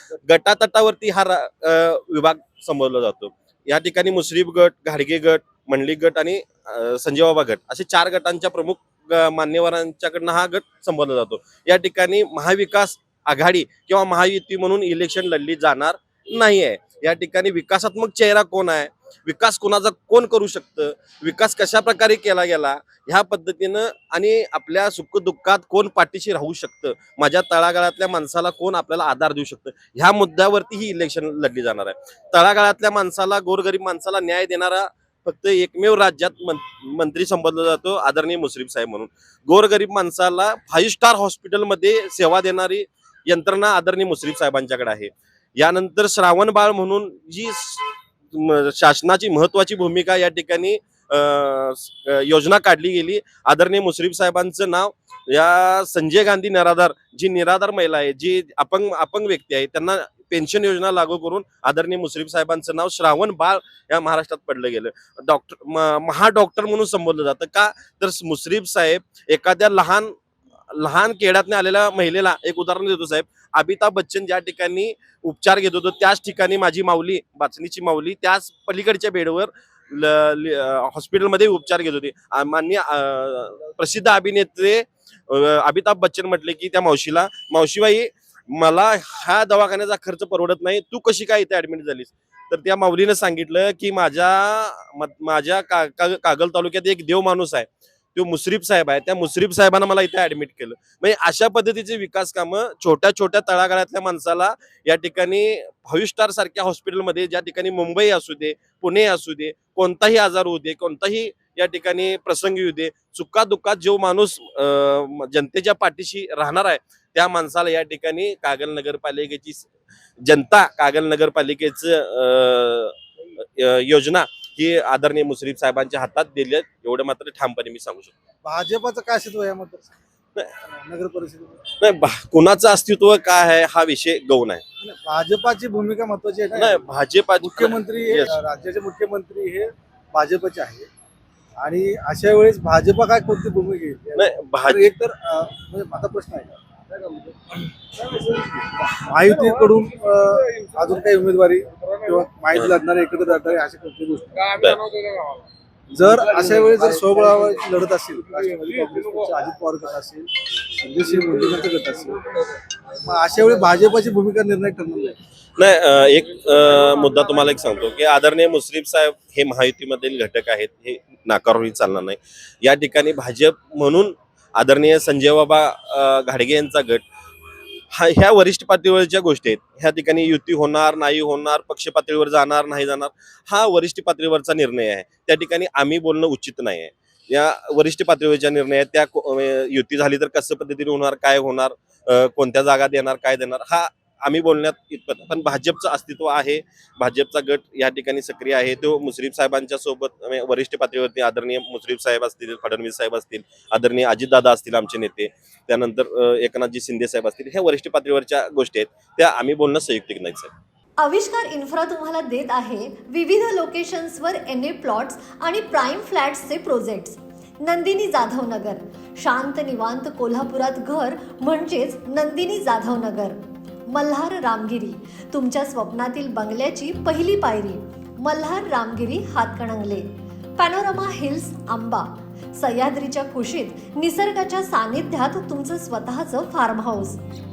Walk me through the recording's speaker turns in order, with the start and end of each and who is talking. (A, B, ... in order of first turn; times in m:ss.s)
0:00.2-1:10.2 A
1:10.7-1:59.7 A
2:00.2-2:03.0 A
2:03.6-2:08.1 A
2:08.4-2:09.9 B
2:10.6-2:11.6 B
2:11.8-2:14.6 A
2:14.8-2:16.9 B
2:16.6-2:18.3 A
2:17.4-2:20.9 B
2:21.6-2:34.6 B
2:24.2-2:24.9 A
2:34.6-2:34.8 A
2:35.9-2:42.2 B
2:42.9-2:45.2 B
2:45.6-2:57.0 A
2:57.9-3:30.5 A
3:31.0-3:57.2 C